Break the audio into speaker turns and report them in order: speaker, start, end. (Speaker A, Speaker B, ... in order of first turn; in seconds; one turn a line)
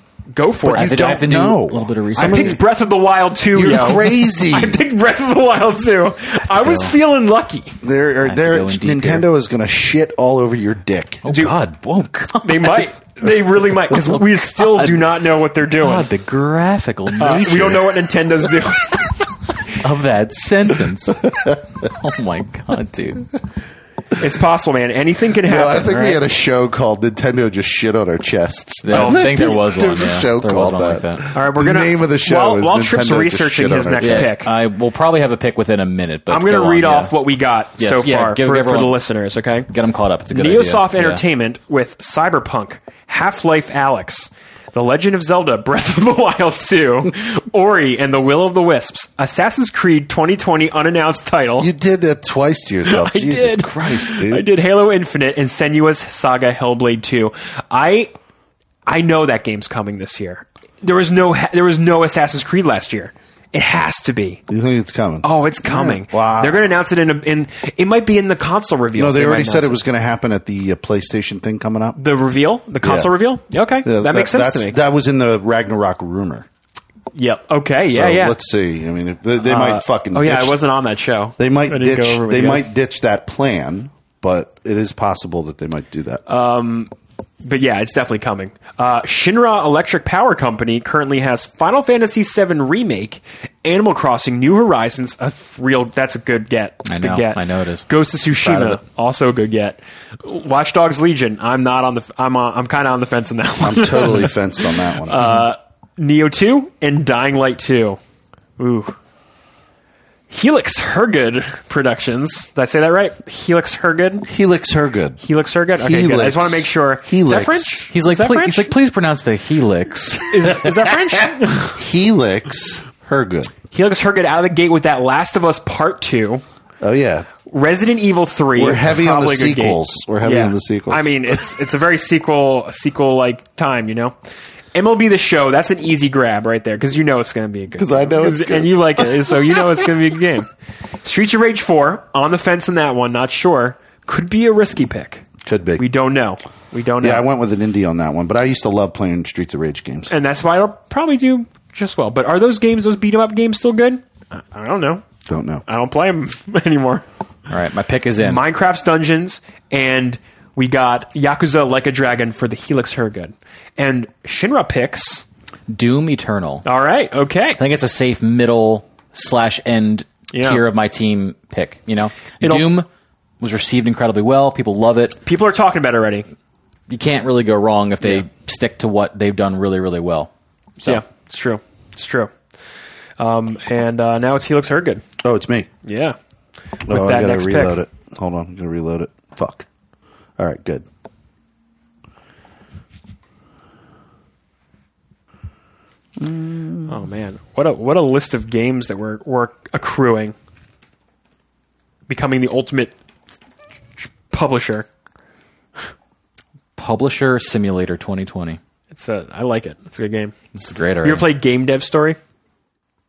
Speaker A: 0.3-1.2
Speaker B: 0.7-2.6
Speaker C: 0.7-2.6
Speaker A: 2.1-7.8
Speaker B: 3.5-4.8
Speaker C: 6.4-6.9
Speaker B: 7.8-11.2
Speaker C: 8.2-9.2
Speaker C: 11.2-12.9
Speaker A: 11.3-11.6
Speaker A: 12.4-16.1
Speaker C: 14.0-15.1
Speaker C: 15.8-17.9
Speaker A: 17.2-19.2
Speaker C: 19.7-21.3
Speaker B: 21.3-21.6
Speaker C: 21.8-23.3
Speaker A: 24.2-26.2
Speaker B: 25.4-34.4
Speaker C: 28.8-31.2
Speaker A: 28.9-29.8
Speaker A: 31.3-34.5
Speaker C: 34.0-37.1
Speaker A: 36.3-39.7
Speaker C: 37.8-39.0
Speaker C: 39.7-41.2
Speaker A: 40.3-51.7
Speaker B: 51.6-54.5
Speaker A: 52.8-58.1
Speaker A: 58.9-64.4
Speaker B: 64.5-66.7
Speaker A: 65.2-69.8
Speaker B: 69.0-72.0
Speaker A: 72.0-74.8
Speaker B: 72.8-73.1
Speaker B: 73.8-76.5
Speaker A: 77.1-78.3
Speaker B: 77.9-80.6
Speaker A: 79.4-82.7
Speaker B: 81.4-86.2
Speaker A: 86.3-86.9
Speaker A: 87.4-108.0
Speaker C: 96.8-98.8
Speaker B: 103.6-105.2
Speaker A: 108.6-109.0
Speaker A: 110.3-114.3
Speaker B: 114.2-115.2
Speaker A: 115.2-118.7
Speaker B: 115.8-117.8
Speaker C: 117.9-120.5
Speaker A: 120.3-121.8
Speaker B: 121.7-123.5
Speaker A: 123.7-126.4
Speaker B: 126.8-127.3
Speaker A: 127.4-134.1
Speaker B: 128.5-131.1
Speaker A: 134.7-140.5
Speaker B: 137.8-139.9
Speaker A: 141.0-145.2
Speaker B: 145.4-145.9
Speaker A: 145.8-147.2
Speaker B: 147.0-150.1
Speaker A: 150.1-155.0
Speaker B: 155.3-155.6
Speaker A: 155.7-157.0
Speaker C: 157.5-158.4
Speaker A: 158.2-165.2
Speaker C: 165.7-166.6
Speaker A: 166.6-167.6
Speaker C: 167.6-172.9
Speaker A: 170.3-170.6
Speaker A: 172.4-172.7
Speaker C: 173.4-175.2
Speaker A: 175.2-176.2
Speaker C: 176.9-181.0
Speaker A: 180.8-182.3
Speaker A: 183.2-185.0
Speaker B: 185.2-185.7
Speaker A: 185.8-186.2
Speaker A: 186.9-187.8
Speaker B: 186.9-189.7
Speaker B: 190.4-190.8
Speaker B: 196.2-197.0
Speaker A: 196.9-200.3
Speaker A: 202.1-202.9
Speaker A: 204.0-204.9
Speaker C: 206.8-208.6
Speaker A: 208.9-210.3
Speaker C: 210.5-211.3
Speaker A: 211.0-212.2